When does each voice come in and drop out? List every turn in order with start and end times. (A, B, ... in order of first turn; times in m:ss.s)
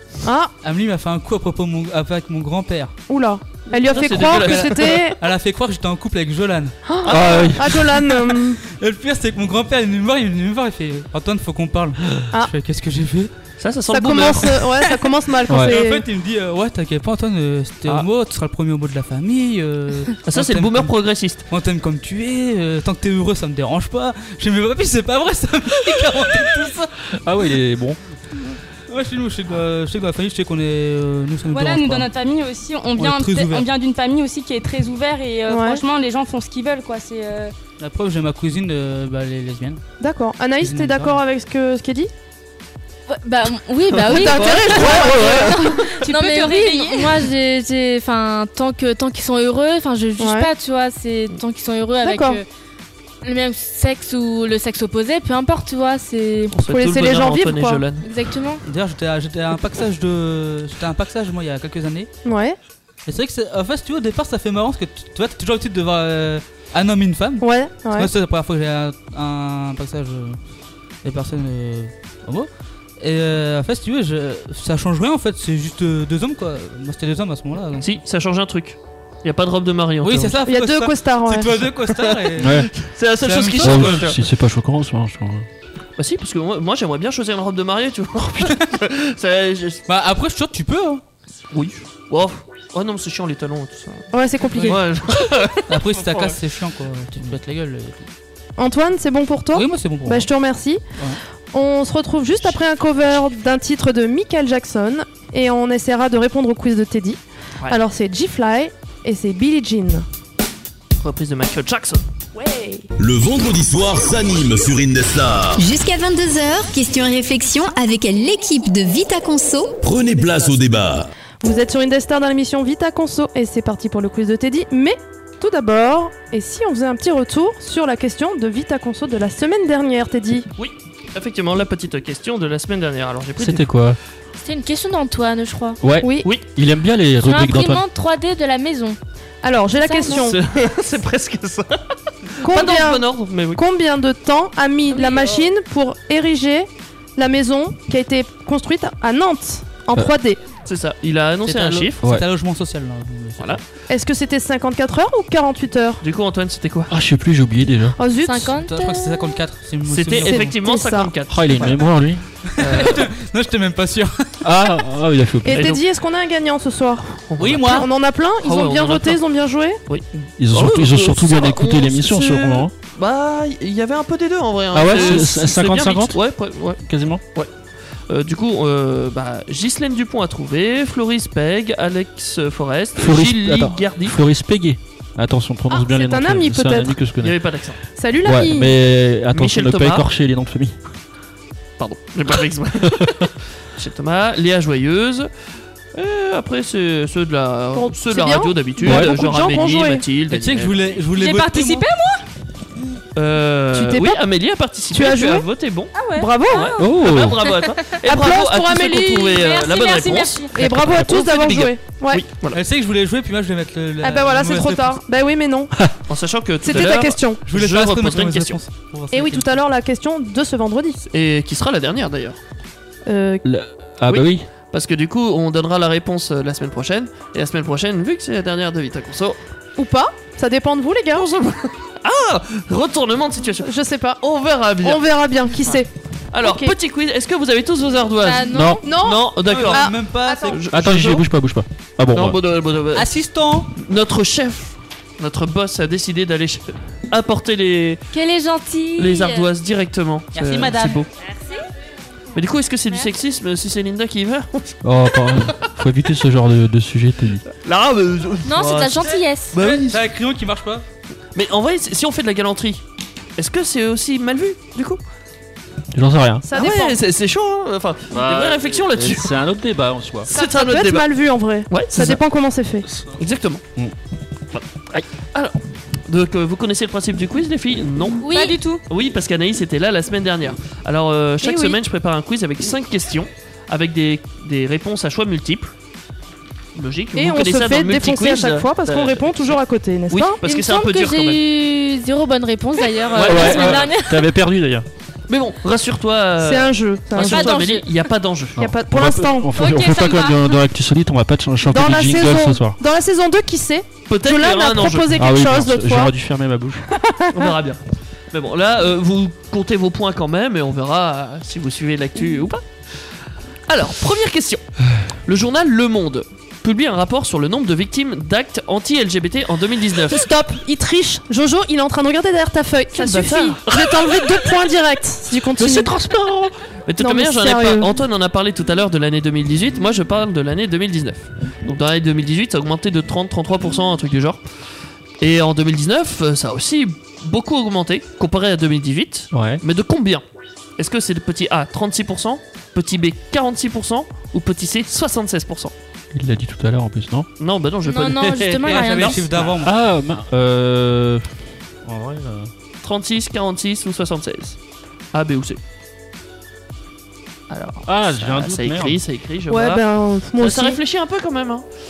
0:00.2-0:00.5 A
0:00.6-0:02.9 B
0:03.1-0:05.2 A
0:03.7-0:05.1 C
0:04.0-0:06.8 B
0:06.8-0:08.6 A
0:07.0-0:07.6 C
0:07.1-0:07.8 D
0:07.9-0:13.3 B
0:13.6-0:14.6 C
0:13.9-0:16.0 A
0:15.5-0:26.9 B
0:15.5-0:15.8 D
0:20.2-0:21.4 C
0:27.2-0:28.0 D
0:28.9-0:32.1 B
0:31.5-0:37.5 E
0:33.0-0:33.6 B
0:35.5-0:35.8 A
0:37.8-0:39.8 B
0:40.0-0:42.1 A
0:40.6-0:41.2 B
0:43.1-0:52.5 F
0:43.9-0:46.1 C
0:44.1-0:45.5 A
0:45.3-0:47.2 E
0:50.2-0:50.5 A
0:52.0-0:52.4 A
0:53.2-0:56.6 F
0:56.5-0:58.0 C
0:56.6-0:57.8 A
0:58.0-0:58.6 F
0:58.6-1:02.1 B
1:02.2-1:02.6 A
1:03.0-1:10.4 B
1:07.4-1:08.1 A
1:11.0-1:17.9 B
1:17.8-1:20.4 C
1:20.0-1:24.1 B
1:20.4-1:21.6 A
1:21.9-1:22.2 C
1:22.4-1:22.7 D
1:22.8-1:24.2 C
1:23.6-1:25.5 D
1:26.0-1:29.8 C
1:28.4-1:28.8 B
1:29.9-1:31.0 B
1:31.5-1:34.1 C
1:34.1-1:34.8 A
1:34.6-1:34.8 B
1:34.6-1:36.4 C
1:35.7-1:38.1 B
1:38.6-1:40.8 A
1:39.5-1:40.3 B
1:41.5-1:50.0 A
1:51.0-1:52.0 C
1:53.0-1:55.7 G
1:55.6-1:59.8 H
1:59.8-2:01.1 G
2:01.4-2:10.5 A
2:10.6-2:13.6 C
2:13.4-2:14.0 D
2:14.4-2:15.8 F
2:15.8-2:17.8 D
2:16.0-2:16.3 A
2:17.2-2:19.0 F
2:19.4-2:20.4 A
2:19.7-2:20.3 F
2:20.1-2:21.8 C
2:22.4-2:23.6 C
2:22.4-2:30.4 A
2:24.9-2:25.5 C
2:30.6-2:32.0 C
2:31.4-2:33.6 B
2:33.9-2:36.0 A
2:36.0-2:36.9 C
2:36.9-2:38.0 D
2:38.0-2:38.5 A
2:38.2-2:39.4 F
2:38.5-2:40.6 B
2:39.8-2:41.8 C
2:40.2-2:41.1 A
2:41.3-2:42.2 D
2:42.5-2:44.1 B
2:42.6-2:43.1 C
2:44.4-2:45.7 D
2:45.4-2:49.8 A
2:45.5-2:45.8 C
2:47.2-2:47.8 C
2:47.4-2:47.9 B
2:48.4-2:49.2 C
2:49.9-2:56.8 C
2:50.4-2:52.7 D
2:54.7-2:56.2 D
2:56.8-2:57.2 D
2:58.1-3:04.2 C
3:03.0-3:07.4 D
3:05.7-3:07.1 A
3:07.2-3:07.8 C
3:07.9-3:08.8 A
3:08.2-3:10.8 D
3:09.3-3:10.0 C
3:11.8-3:15.3 C
3:15.9-3:20.8 C
3:17.7-3:20.0 A
3:18.8-3:19.2 D
3:20.3-3:21.9 B
3:21.2-3:22.2 E
3:23.1-3:32.6 C
3:23.7-3:24.2 A
3:24.9-3:25.4 A
3:25.9-3:26.2 F
3:26.1-3:26.6 E
3:26.2-3:26.8 A
3:26.8-3:27.4 D
3:28.0-3:29.3 A
3:29.2-3:30.5 E
3:30.5-3:32.2 A
3:30.6-3:31.2 D
3:32.5-3:35.0 B
3:34.0-3:35.7 A
3:36.1-3:38.6 C
3:36.6-3:37.4 A
3:36.6-3:39.6 B
3:39.1-3:41.0 A
3:41.1-3:42.4 C
3:43.0-3:43.4 A
3:43.4-3:44.4 D
3:44.1-3:49.4 C
3:49.8-3:51.3 A
3:51.1-3:55.0 C
3:53.6-3:54.2 A
3:54.8-3:56.7 A
3:56.3-4:01.2 C
3:58.2-3:59.0 F
3:58.5-3:58.8 D
3:58.8-4:00.6 A
3:59.4-4:00.6 B
4:00.7-4:02.4 D
4:02.1-4:03.1 C
4:02.9-4:03.7 B
4:03.8-4:08.0 C
4:08.1-4:09.5 F
4:09.0-4:11.1 C
4:10.3-4:11.0 B
4:12.3-4:14.8 C
4:14.8-4:17.4 D
4:17.5-4:20.0 C
4:18.4-4:19.6 F
4:19.0-4:20.8 B
4:21.3-4:22.8 C
4:23.4-4:25.0 C
4:25.9-4:26.4 D
4:26.5-4:27.0 A
4:26.5-4:29.3 C
4:28.1-4:30.3 D
4:30.2-4:31.1 C
4:30.3-4:32.9 A
4:31.7-4:32.2 C
4:32.8-4:33.2 D
4:33.2-4:33.6 C
4:34.5-4:38.2 C
4:38.2-4:38.6 F
4:38.3-4:38.8 E
4:38.9-4:45.7 C
4:41.4-4:41.8 A
4:46.7-4:49.5 C
4:47.1-4:50.4 A
4:50.1-4:51.4 C
4:50.4-4:54.3 F
4:53.0-4:53.9 C
4:53.2-4:54.8 D
4:55.3-4:58.6 C
4:56.4-4:57.6 A
4:57.1-4:58.1 F
4:58.6-5:02.8 D
4:58.6-4:59.5 A
4:59.5-5:00.6 E
5:01.7-5:06.1 A
5:04.1-5:05.1 C
5:05.1-5:06.9 D
5:06.9-5:07.5 A
5:07.3-5:12.6 C
5:13.7-5:14.6 C
5:15.2-5:20.2 C
5:20.1-5:25.9 A
5:22.9-5:24.4 C
5:25.6-5:34.4 C
5:27.0-5:27.9 A
5:35.2-5:40.2 C
5:39.3-5:39.6 D
5:40.8-5:45.7 C
5:46.1-5:47.3 D
5:47.4-5:49.5 C
5:47.8-5:49.4 F
5:48.6-5:49.8 B
5:49.6-5:52.5 D
5:52.8-5:54.6 C
5:55.1-5:55.6 C
5:57.5-5:59.8 C
5:57.8-5:59.0 D
5:59.5-6:00.8 A
6:00.4-6:01.6 C